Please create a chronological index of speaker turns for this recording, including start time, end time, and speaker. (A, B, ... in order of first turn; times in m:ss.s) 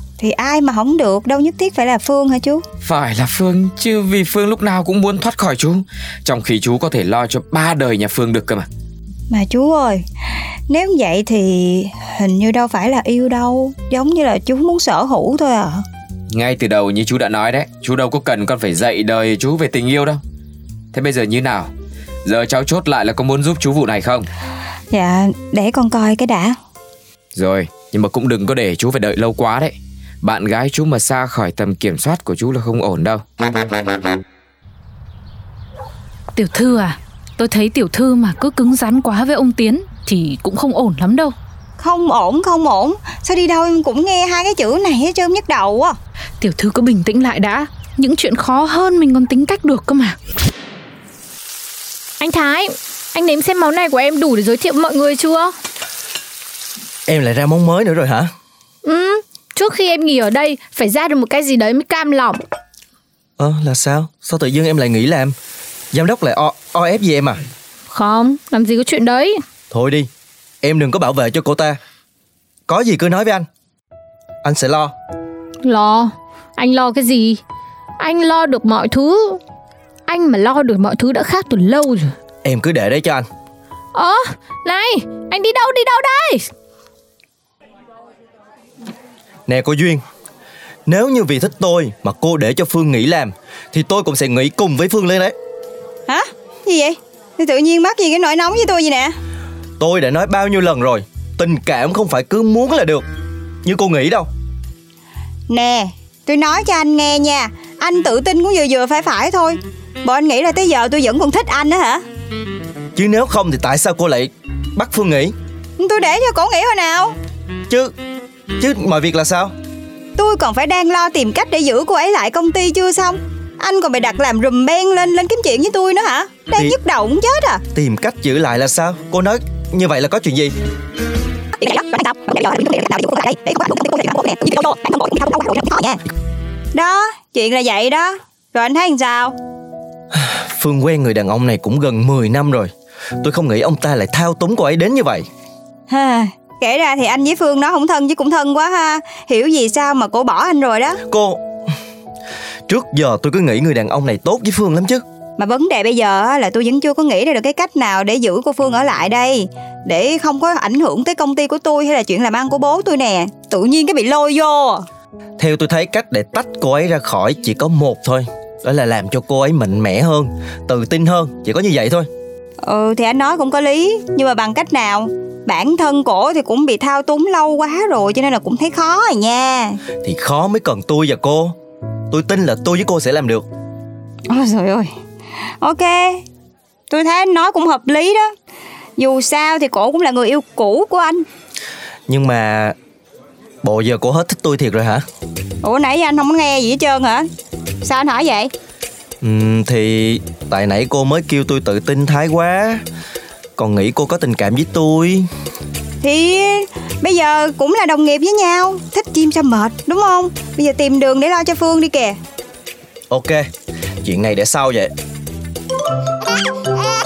0:00.2-0:02.6 A
0:02.8-0:08.7 B
0:09.3-0:10.0 A
0:10.7-0:15.8 A
0:16.3-0:20.2 B
0:20.9-0:21.7 B
0:22.2-0:24.3 B
0:24.9-0:26.6 A
0:27.3-0:33.5 B
0:36.4-0:41.3 C
0:41.8-0:46.0 A
0:46.4-0:50.2 C
0:52.2-0:55.5 D
0:57.1-0:58.3 E
0:58.8-1:02.4 D
1:03.4-1:05.3 E
1:05.9-1:07.4 E
1:07.9-1:09.4 D
1:09.7-1:10.1 E
1:10.6-1:11.8 E
1:12.7-1:13.4 E
1:14.4-1:14.9 E
1:15.6-1:17.4 D
1:18.0-1:19.4 D
1:20.1-1:22.1 D
1:22.4-1:23.2 E
1:23.9-1:26.4 D
1:29.5-1:30.0 E
1:30.8-1:35.3 E
1:36.1-1:39.1 A
1:39.8-1:43.0 E
1:43.6-1:44.3 E
1:45.5-1:52.0 A
1:53.0-1:55.3 E
1:55.8-1:57.1 A
1:58.6-1:59.5 E
2:00.2-2:07.6 A
2:07.7-2:10.5 E
2:11.6-2:16.0 A
2:16.7-2:19.3 A
2:20.1-2:25.3 E
2:25.9-2:31.0 A
2:31.1-2:31.4 E
2:32.7-2:35.0 E
2:35.4-2:44.8 A
2:45.4-2:52.1 E
2:52.6-2:59.8 A
3:00.0-3:01.5 E
3:02.1-3:03.4 E
3:04.3-3:04.9 A
3:05.6-3:06.2 A
3:06.9-3:08.3 A
3:09.0-3:11.2 A
3:12.1-3:12.7 E
3:13.6-3:15.0 E
3:15.6-3:17.3 A
3:17.8-3:18.5 A
3:19.2-3:22.8 E
3:23.6-3:25.2 E
3:26.0-3:32.2 A
3:33.1-3:33.4 E
3:34.0-3:34.9 E